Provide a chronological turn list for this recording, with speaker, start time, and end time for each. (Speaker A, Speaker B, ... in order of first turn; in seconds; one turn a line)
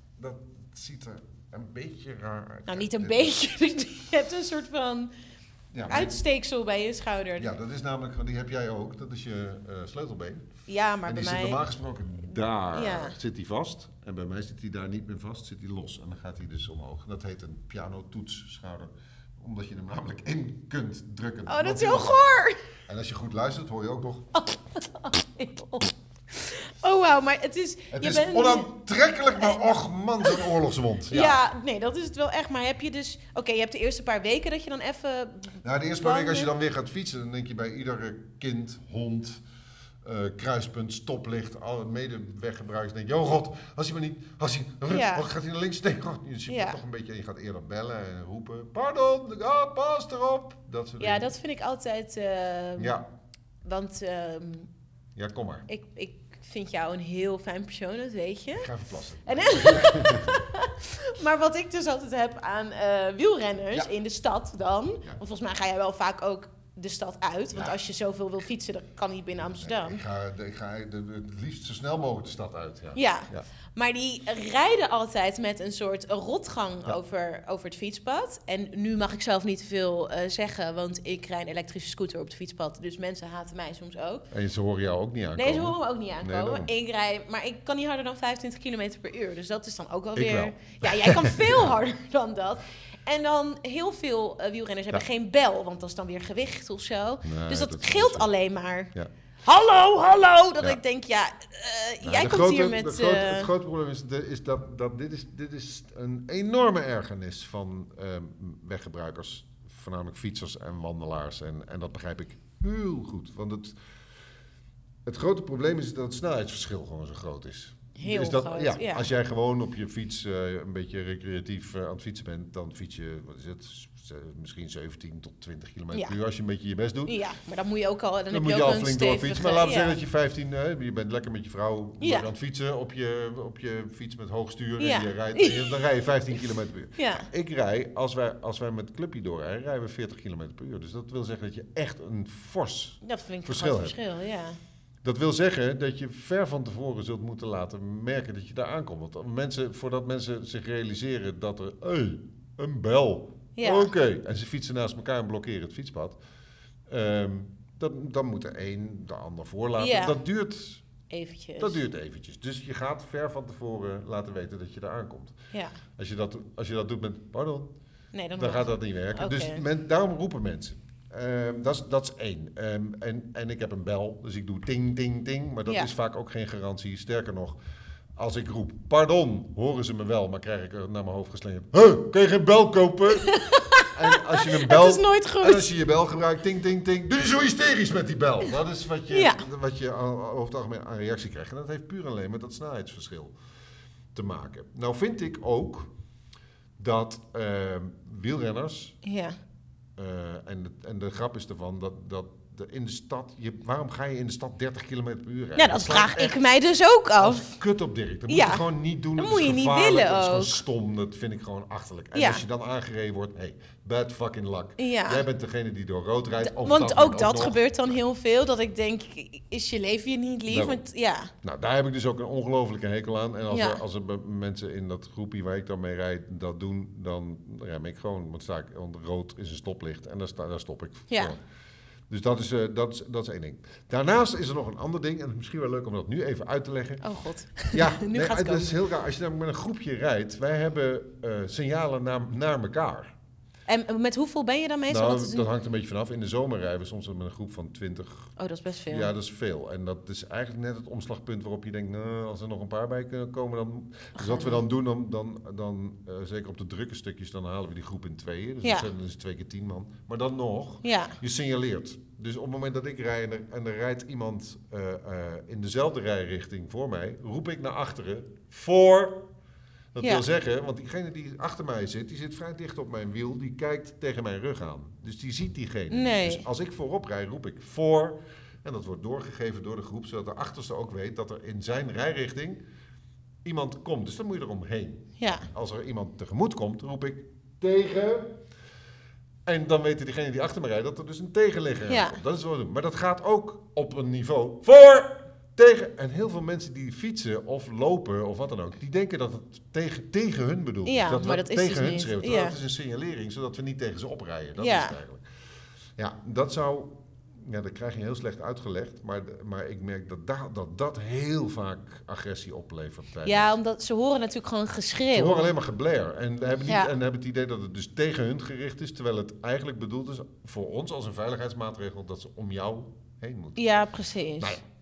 Speaker A: 0.2-3.4
Speaker B: 2.7-5.1
Speaker A: 5.7-6.2
Speaker B: 5.9-7.5
Speaker A: 7.4-10.5
Speaker B: 10.7-11.6
Speaker A: 11.1-22.2
Speaker B: 12.7-13.2
Speaker B: 21.5-22.6
Speaker A: 22.9-24.3
Speaker B: 24.4-28.7
Speaker A: 27.9-31.4
Speaker B: 31.1-36.5
Speaker A: 35.6-39.4
Speaker A: 40.0-51.3
Speaker B: 44.9-45.3
Speaker B: 46.5-46.8
Speaker B: 51.0-53.0
Speaker A: 52.8-53.1
Speaker B: 53.6-54.7
Speaker A: 55.1-55.7
Speaker B: 55.7-58.7
Speaker A: 58.5-60.5
Speaker B: 59.2-70.0
Speaker A: 69.5-73.5
Speaker B: 73.0-84.3
Speaker A: 84.3-86.7
Speaker B: 85.4-98.9
Speaker A: 90.2-91.7
Speaker A: 97.2-98.3
Speaker B: 99.5-103.5
Speaker A: 102.0-113.8
Speaker A: 115.0-127.2
Speaker B: 118.0-119.1
Speaker B: 127.1-130.0
Speaker A: 128.3-144.0
Speaker B: 132.0-132.3
Speaker B: 134.8-135.7
Speaker B: 137.0-137.3
Speaker B: 143.0-144.6
Speaker A: 145.0-156.2
Speaker B: 153.6-153.9
Speaker A: 156.9-160.8
Speaker B: 159.8-160.2
Speaker B: 161.1-161.8
Speaker A: 161.6-165.3
Speaker B: 165.5-165.8
Speaker A: 166.0-167.7
Speaker B: 168.1-169.6
Speaker A: 168.4-177.6
Speaker A: 178.2-183.4
Speaker B: 183.2-185.7
Speaker A: 183.9-193.3
Speaker B: 189.1-189.4
Speaker A: 194.1-195.9
Speaker A: 196.8-199.0
Speaker B: 199.0-199.4
Speaker A: 200.0-206.4
Speaker B: 205.6-207.5
Speaker A: 207.2-217.6
Speaker B: 208.3-208.6
Speaker B: 209.2-210.6
Speaker B: 212.1-212.4
Speaker B: 214.8-215.2
Speaker B: 216.4-221.3
Speaker A: 220.5-220.8
Speaker A: 221.4-231.4
Speaker B: 223.5-223.8
Speaker A: 232.1-237.0
Speaker B: 237.0-238.8
Speaker A: 237.7-243.2
Speaker B: 243.7-245.5
Speaker A: 244.9-248.3
Speaker B: 248.4-249.1
Speaker A: 248.9-269.3
Speaker B: 254.2-254.6
Speaker B: 258.6-258.9
Speaker B: 260.8-261.2
Speaker A: 269.9-282.6
Speaker B: 275.9-276.4
Speaker A: 283.4-288.4
Speaker B: 285.2-285.5
Speaker A: 289.5-305.2
Speaker B: 291.9-292.2
Speaker B: 300.9-302.6
Speaker B: 304.6-305.0
Speaker A: 306.0-313.6
Speaker B: 313.2-315.5
Speaker A: 315.1-323.6
Speaker B: 316.6-316.9
Speaker B: 323.6-324.6
Speaker A: 324.4-324.6